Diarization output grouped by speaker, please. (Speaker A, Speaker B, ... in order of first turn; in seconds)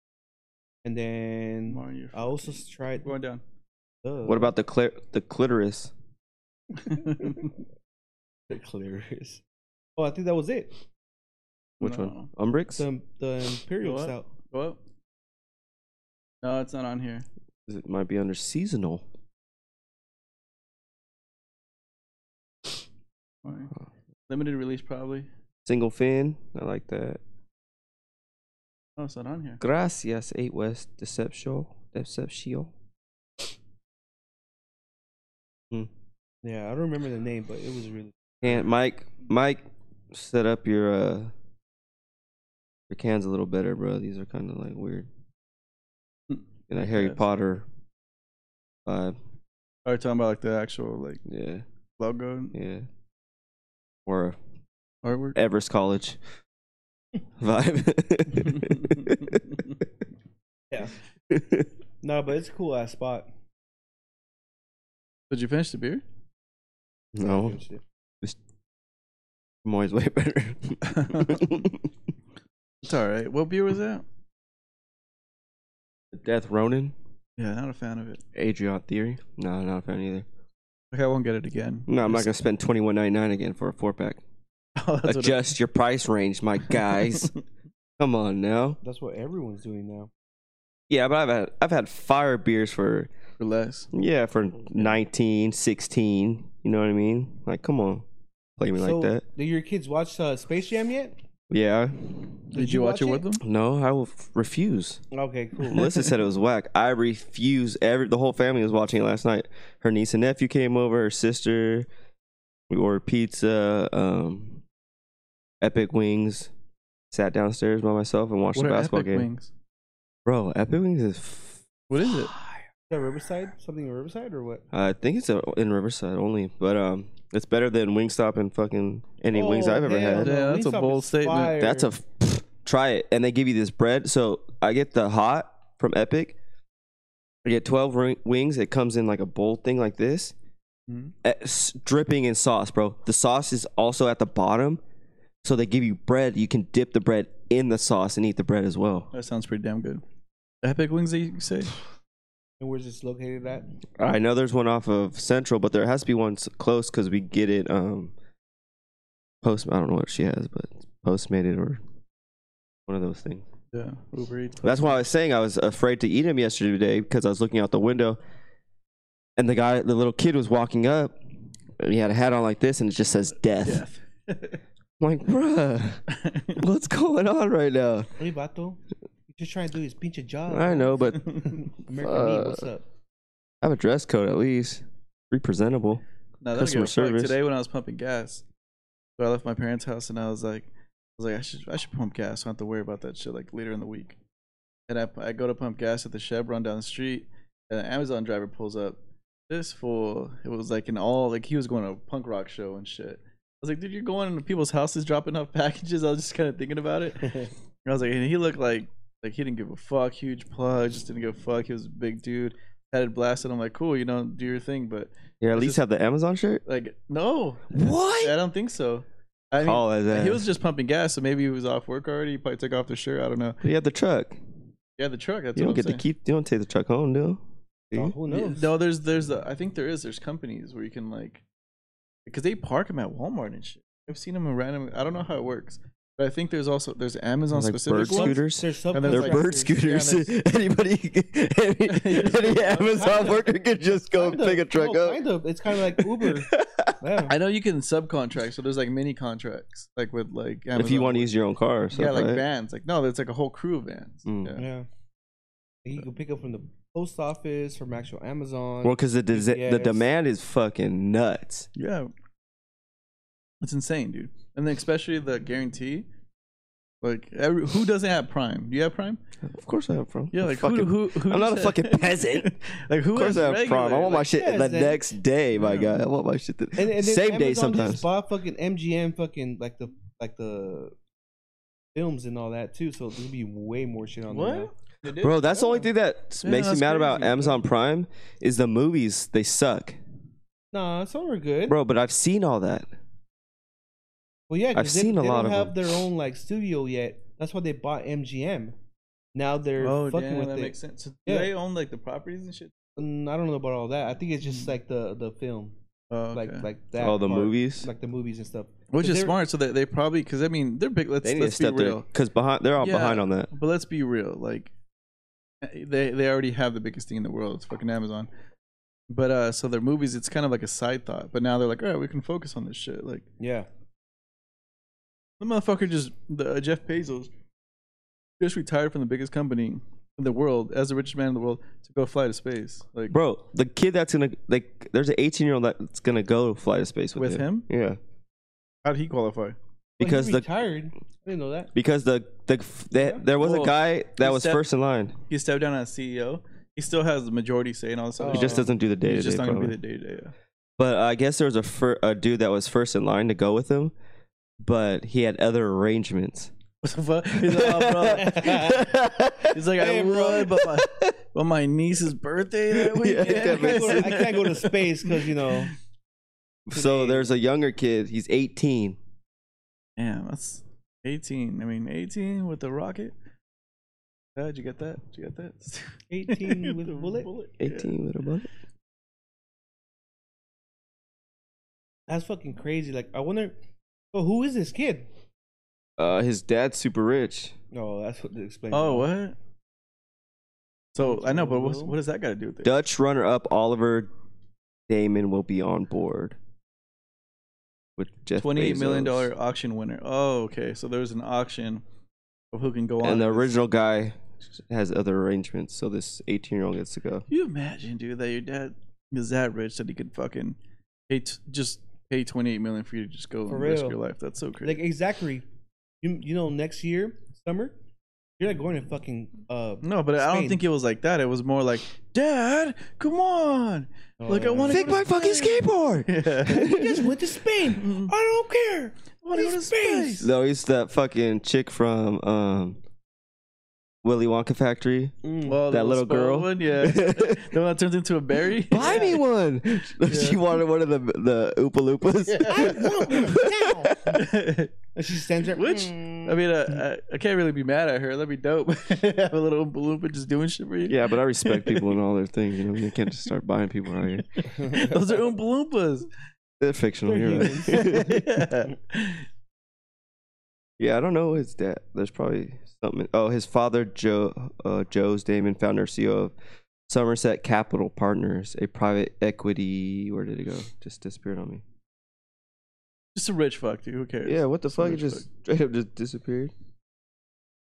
Speaker A: 0.8-3.1, 4.0-4.5, 7.0-7.3, 8.5-9.4, 10.0-10.8, 12.8-14.3, 36.4-38.5, 60.7-61.0, 62.0-63.3, 67.2-67.8, 88.8-90.1, 98.8-101.2, 102.5-103.2, 105.1-105.9, 122.9-124.6, 129.3-131.9, 152.6-153.7, 178.2-178.8, 179.3-182.8, 227.9-228.7, 237.9-239.8, 242.9-243.5, 244.0-247.4, 254.6-254.9, 255.8-260.1, 274.3-275.0, 276.8-280.9, 281.9-284.7, 285.5-285.9, 290.7-291.8, 294.5-298.8, 299.4-300.8, 301.3-301.5, 303.0-305.7, 306.3-309.4, 323.4-323.7, 340.0-341.7, 348.2-348.7, 358.1-358.9, 359.8-360.7, 363.2-365.7, 366.7-367.3, 376.1-377.3, 382.1-383.6, 384.1-385.1, 387.7-389.1, 391.0-391.9, 413.5-414.0, 414.6-415.4, 416.0-417.8, 418.4-420.6, 424.2-425.1, 426.5-430.3, 435.2-435.6, 438.8-439.1, 442.5-444.2, 444.9-446.5, 454.6-455.0, 457.1-458.0
Speaker B: 1.7-3.4, 6.8-7.5, 11.8-12.3, 13.8-14.8, 16.4-17.3, 23.4-23.7, 24.3-25.3, 29.0-29.6, 46.3-47.2, 49.9-51.2, 52.0-52.5, 55.0-55.4, 58.5-59.3, 65.3-66.0, 70.8-71.5, 72.8-74.0, 77.4-78.2, 80.9-82.3, 84.8-85.5, 93.4-93.9, 102.5-103.4, 118.5-119.5, 121.9-122.3, 130.2-131.6, 140.9-141.1, 149.1-150.0, 150.6-151.7, 163.7-164.9, 173.6-174.6, 176.1-176.6, 181.2-181.5, 186.4-188.4, 189.2-194.2, 194.9-199.0, 199.5-215.8, 216.7-223.6, 225.0-226.0, 228.3-231.4, 232.3-238.4, 238.9-240.3, 241.9-243.3, 247.3-251.3, 251.9-254.6, 261.8-262.1, 263.6-266.1, 267.0-269.2, 270.3-274.3, 275.6-276.0, 284.3-285.4, 286.4-287.6, 299.8-302.7, 304.4-304.7, 306.1-306.7, 308.9-312.1, 312.8-314.7, 315.6-318.3, 319.1-323.3, 325.4-327.3, 328.4-333.2, 337.2-337.7, 338.9-339.6, 343.4-344.6, 345.3-350.3, 356.8-358.8, 359.5-365.7, 370.0-373.1, 374.4-377.9, 388.7-389.4, 390.9-392.7, 398.4-401.8, 402.5-403.6, 407.3-410.6, 411.1-414.8, 419.8-426.9, 427.8-428.1, 429.2-430.3, 435.4-439.2, 440.1-440.4, 442.3-443.3, 444.1-444.7, 445.5-451.9, 454.4-456.1, 457.5-459.2, 473.2-475.2
Speaker C: 4.2-5.9, 11.8-12.8, 17.7-19.1, 25.6-27.2, 29.6-32.7, 38.4-41.3, 42.9-45.1, 46.7-47.7, 48.9-49.2, 51.3-51.6, 52.5-52.9, 54.1-54.4, 55.4-56.2, 57.4-59.6, 61.3-61.7, 67.1-67.6, 69.6-71.8, 76.1-77.0, 78.3-80.3, 81.9-84.2, 85.0-87.3, 88.0-88.8, 90.9-93.1, 93.9-98.0, 98.6-99.2, 101.5-102.4, 103.4-105.0, 105.7-111.9, 112.7-114.6, 115.6-116.5, 117.1-119.3, 120.3-121.6, 122.3-122.6, 124.7-130.3, 131.6-136.4, 137.4-140.3, 141.2-144.8, 145.4-149.1, 154.0-158.1, 159.4-161.8, 162.9-163.4, 164.6-168.2, 169.4-171.2, 171.8-173.8, 175.0-176.0, 176.6-178.1, 180.5-181.4, 182.0-182.7, 183.6-186.0, 186.5-187.4, 215.4-216.6, 217.7-218.4, 219.6-220.4, 223.6-224.4, 225.6-228.1, 237.5-245.2, 246.0-247.0, 250.8-252.4, 254.3-254.5, 258.8-261.7, 269.4-272.6, 273.1-278.1, 285.2-290.0, 291.7-292.9, 294.8-295.8, 307.0-307.9, 311.2-313.5, 333.1-338.0, 340.0-340.5, 341.8-345.1, 348.3-349.8, 350.8-353.9, 354.6-356.5, 357.4-359.6, 362.8-364.4, 366.7-369.0, 377.6-378.5, 386.0-387.6, 392.6-394.1, 394.9-396.4, 398.0-399.3, 403.0-407.2, 424.7-427.1, 430.2-432.8, 434.0-435.1, 435.7-437.5, 438.7-444.2, 450.9-454.4, 456.6-458.2, 460.8-466.3, 466.9-471.6, 474.3-476.5